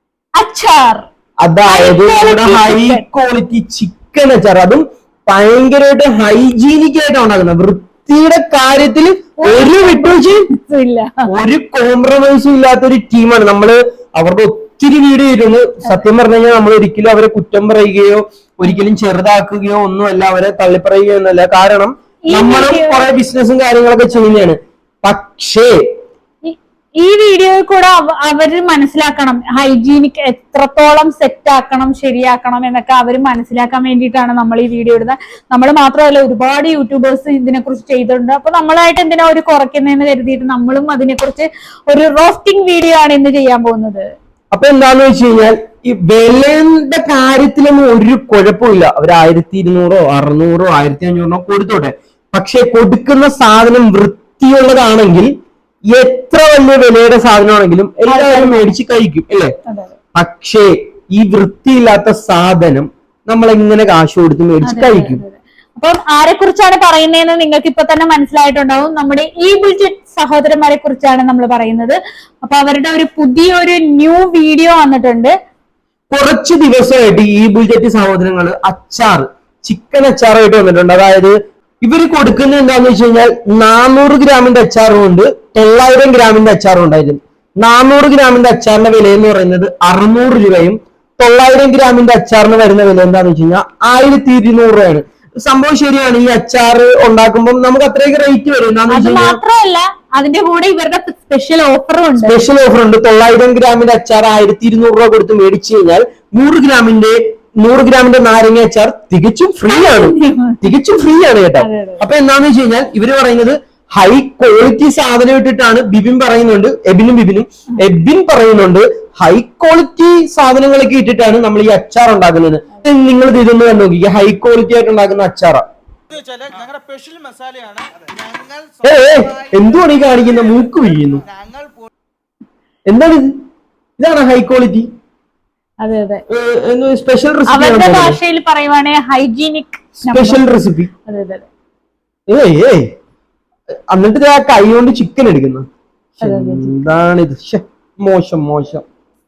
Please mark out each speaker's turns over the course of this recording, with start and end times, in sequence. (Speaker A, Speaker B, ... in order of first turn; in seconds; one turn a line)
Speaker A: 0.4-1.1
Speaker B: 1.4-10.5
Speaker A: 1.6-3.0
Speaker A: 9.4-11.3
Speaker B: 11.3-25.7
Speaker A: 22.3-23.1
Speaker A: 26.4-44.1
Speaker B: 44.5-55.3
Speaker B: 55.9-59.5
Speaker A: 58.1-58.7
Speaker A: 59.7-59.9
Speaker B: 60.2-65.2
Speaker A: 64.6-75.3
Speaker B: 76.1-99.4
Speaker A: 98.9-102.4
Speaker B: 102.2-125.6
Speaker A: 109.7-110.8
Speaker A: 111.6-112.0
Speaker C: 126.1-129.4
Speaker B: 128.8-131.2
Speaker C: 131.2-131.8
Speaker B: 132.9-133.3
Speaker B: 134.0-134.9
Speaker A: 135.8-136.2
Speaker B: 136.3-138.2
Speaker A: 137.5-140.5
Speaker B: 140.1-140.9
Speaker A: 141.1-141.5
Speaker B: 142.3-142.9
Speaker B: 143.9-145.7
Speaker A: 146.2-146.8
Speaker B: 146.2-148.8